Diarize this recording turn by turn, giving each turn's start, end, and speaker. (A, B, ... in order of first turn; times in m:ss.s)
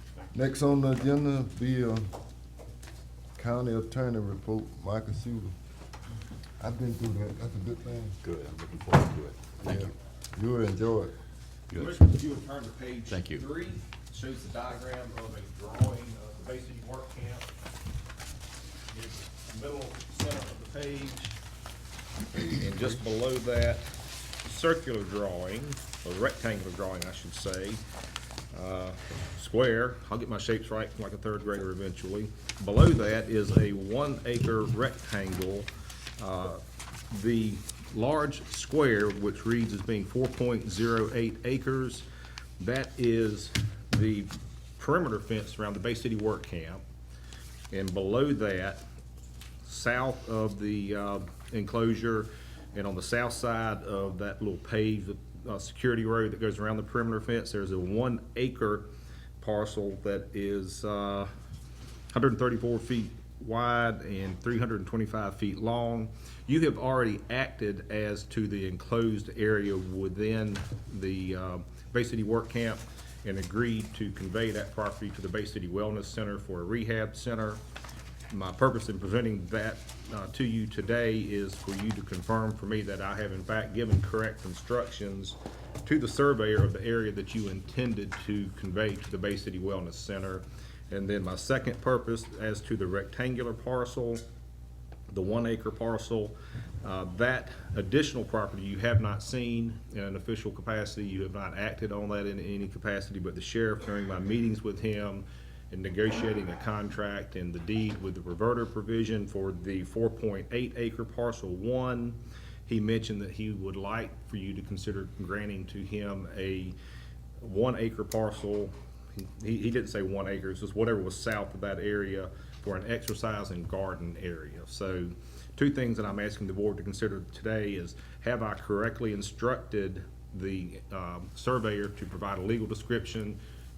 0:00.3-0:02.1 A
0:03.4-0:05.5 A
0:06.6-0:08.2 A
0:08.2-0:09.9 B
0:09.6-0:11.1 A
0:11.7-0:12.0 B
0:11.7-0:17.5 C
0:13.1-0:13.4 B
0:18.9-0:21.4 C
0:22.5-0:23.8 C
0:24.4-0:27.8 C
0:28.5-0:42.1 C
0:42.6-0:46.8 C
0:47.7-0:48.8 C
0:49.6-0:58.9 C
0:59.4-1:01.3 C
1:02.1-1:17.6 C
1:18.3-1:34.2 C
1:35.1-1:56.8 C
1:57.4-2:13.4 C